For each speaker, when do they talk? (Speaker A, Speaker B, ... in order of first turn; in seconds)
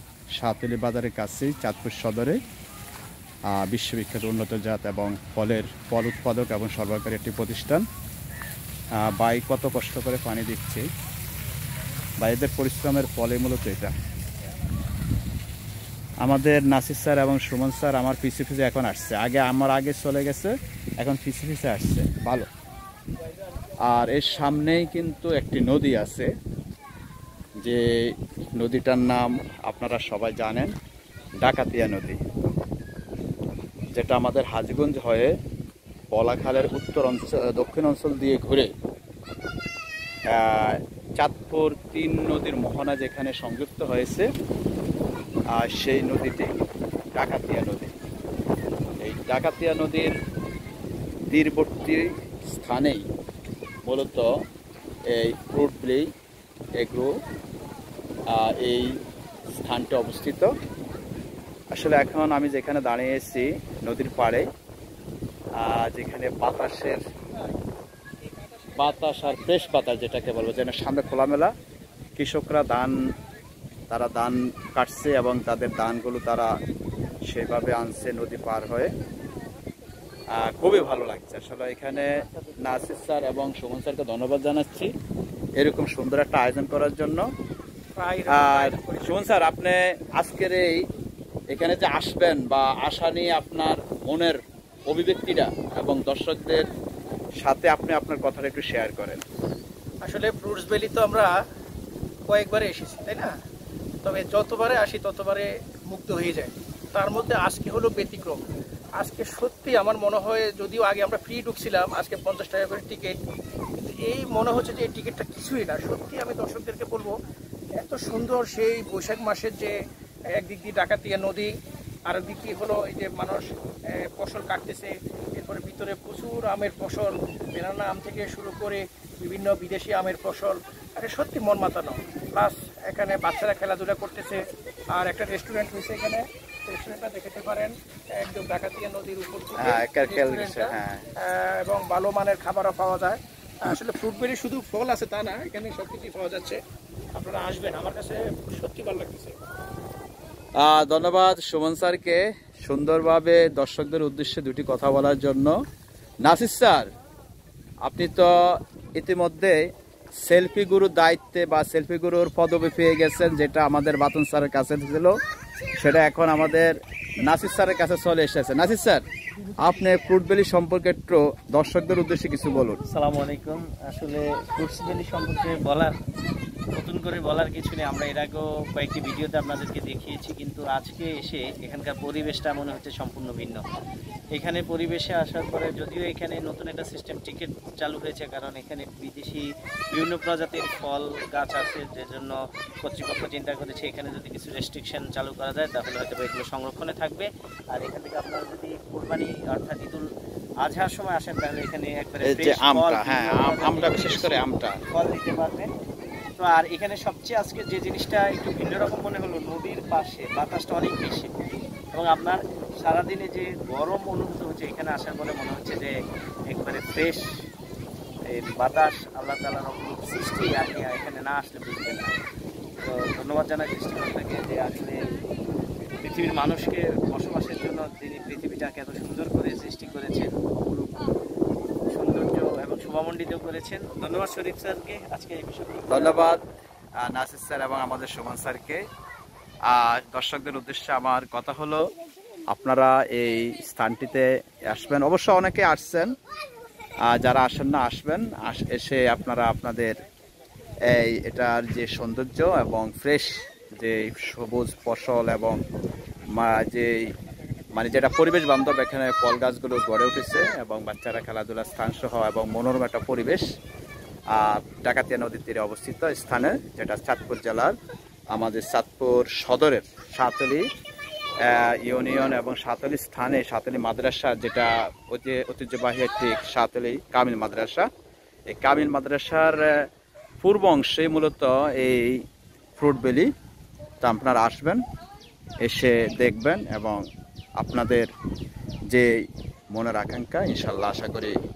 Speaker A: 0.3-2.4, 3.5-7.8, 8.9-10.8, 12.2-13.9, 16.2-22.5, 23.8-26.3, 27.6-30.7, 31.4-32.2, 33.9-35.3, 36.1-38.7, 40.3-44.3, 45.5-46.5, 47.1-47.9, 49.0-50.1, 51.3-53.0, 53.8-54.3, 55.0-56.1, 56.8-57.2, 58.3-60.5, 61.7-64.5, 65.5-67.0, 68.8-71.5, 72.2-72.9, 73.9-76.5, 77.2-78.9, 80.3-84.9, 85.6-87.3, 88.3-90.9, 91.5-96.7, 97.4-99.2, 139.6-141.1, 150.6-155.6, 156.2-156.9, 157.8-165.2, 165.8-169.0, 169.6-172.8, 202.3-204.8, 235.9-236.4, 237.0-238.8, 239.7-241.8, 242.5-246.1, 247.0-250.0, 250.8-255.6, 256.3-257.1, 257.7-263.4, 264.3-267.8, 268.3-270.7, 271.4-277.9, 278.5-279.9, 280.4-283.3, 284.0-284.8, 285.6-288.1, 288.9-291.4
Speaker B: 88.0-89.5, 100.0-101.3, 102.3-103.3, 104.0-108.4, 109.0-113.2, 113.8-117.1, 117.8-119.7, 120.3-121.5, 122.1-134.4, 134.9-146.6, 147.1-149.3
Speaker C: 172.9-175.9, 176.7-183.6, 184.3-200.1, 200.6-205.7, 206.4-211.3, 211.9-215.9, 216.5-217.3, 218.2-222.2, 222.8-225.0, 226.0-231.0, 231.9-236.3